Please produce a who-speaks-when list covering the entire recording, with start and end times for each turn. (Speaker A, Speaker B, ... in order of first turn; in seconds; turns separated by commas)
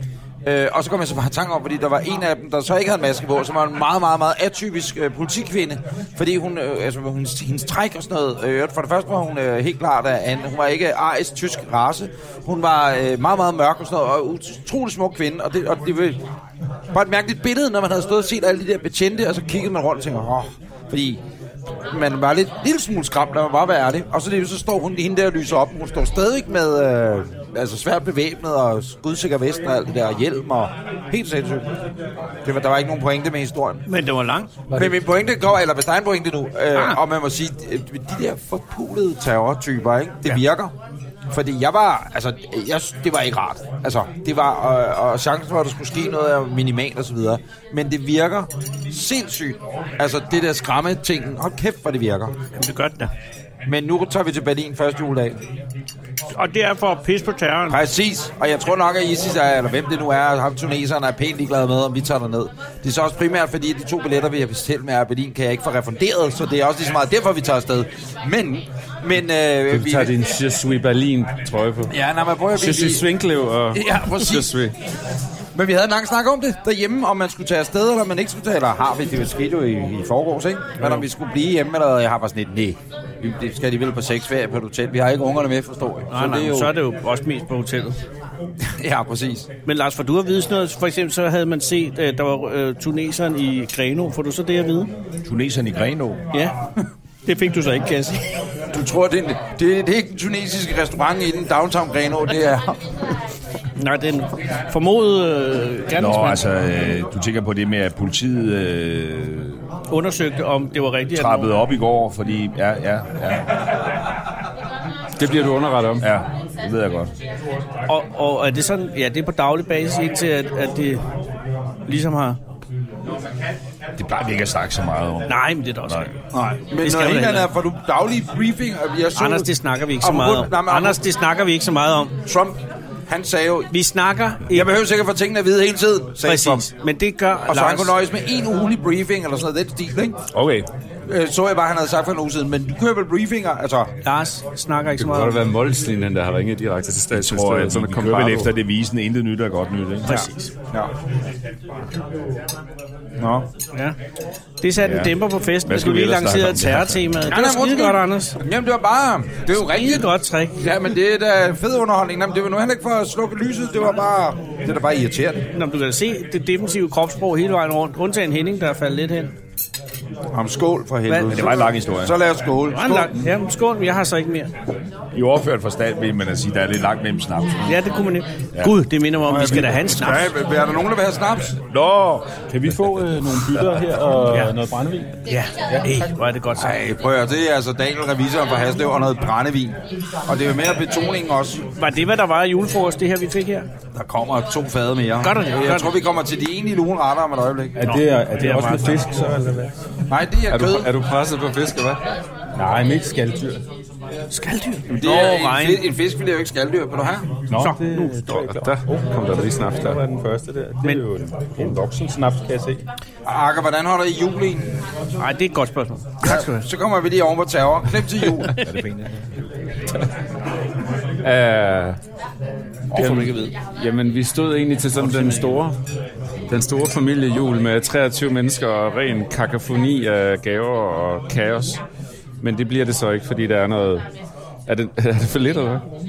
Speaker A: 0.4-16.2, Speaker A: 16.9-21.2, Speaker A: 21.9-31.7, Speaker A: 32.4-33.8, Speaker B: 33.9-34.5, Speaker A: 34.7-40.7, Speaker B: 36.7-37.0, Speaker A: 41.3-52.3, Speaker B: 52.6-53.1, Speaker A: 53.6-55.4, Speaker B: 56.3-57.8, Speaker A: 57.7-70.1, Speaker C: 69.7-71.9, Speaker A: 71.9-73.0, Speaker C: 72.5-74.7, Speaker A: 73.7-74.5, Speaker A: 75.5-86.7, Speaker B: 86.1-88.0, Speaker A: 88.8-89.5, Speaker B: 89.7-94.9, Speaker D: 95.2-96.2, Speaker B: 97.2-98.2, Speaker A: 98.7-102.8, Speaker B: 103.8-106.4, Speaker D: 106.0-109.6, Speaker B: 109.9-111.5, Speaker D: 111.1-113.5, Speaker C: 115.2-116.0, Speaker D: 116.0-117.1, Speaker B: 117.9-121.0, Speaker B: 121.9-122.4, Speaker D: 124.0-126.1, Speaker B: 125.2-126.1, Speaker A: 126.3-129.5, Speaker B: 126.8-127.5, Speaker B: 129.2-132.2, Speaker A: 130.0-131.0, Speaker A: 132.2-133.7, Speaker B: 133.7-134.7, Speaker A: 134.5-136.7, Speaker B: 136.2-137.9, Speaker A: 137.5-140.2, Speaker A: 141.1-143.9, Speaker B: 144.0-145.4, Speaker C: 145.0-148.5, Speaker D: 147.1-150.2, Speaker B: 150.0-150.5, Speaker A: 153.2-153.5, Speaker B: 154.6-158.4, Speaker D: 154.8-157.0, Speaker A: 157.2-165.4, Speaker B: 159.6-160.6, Speaker B: 165.5-169.3, Speaker A: 170.3-173.2, Speaker B: 171.1-171.4, Speaker D: 171.3-172.2, Speaker B: 172.7-174.5, Speaker D: 175.1-177.8, Speaker B: 177.6-180.3, Speaker A: 179.3-181.6, Speaker D: 181.7-182.4, Speaker E: 182.5-185.2, Speaker B: 185.3-186.8, Speaker E: 185.7-186.1, Speaker A: 186.5-191.6, Speaker B: 191.8-193.7, Speaker A: 193.9-197.8, Speaker B: 195.2-195.9, Speaker E: 197.8-199.7, Speaker B: 197.8-199.0, Speaker A: 200.1-200.9, Speaker C: 200.5-202.0, Speaker E: 202.6-203.6, Speaker B: 204.3-205.8, Speaker A: 204.9-207.3, Speaker E: 207.5-212.8, Speaker B: 207.5-208.5, Speaker C: 208.4-210.0, Speaker A: 213.2-214.7, Speaker B: 215.2-216.7, Speaker A: 216.2-218.6, Speaker D: 218.6-219.1, Speaker C: 221.2-222.0, Speaker A: 222.9-223.4, Speaker C: 222.9-225.8, Speaker B: 225.0-225.4, Speaker C: 226.5-231.8, Speaker C: 232.4-234.1, Speaker C: 234.7-235.8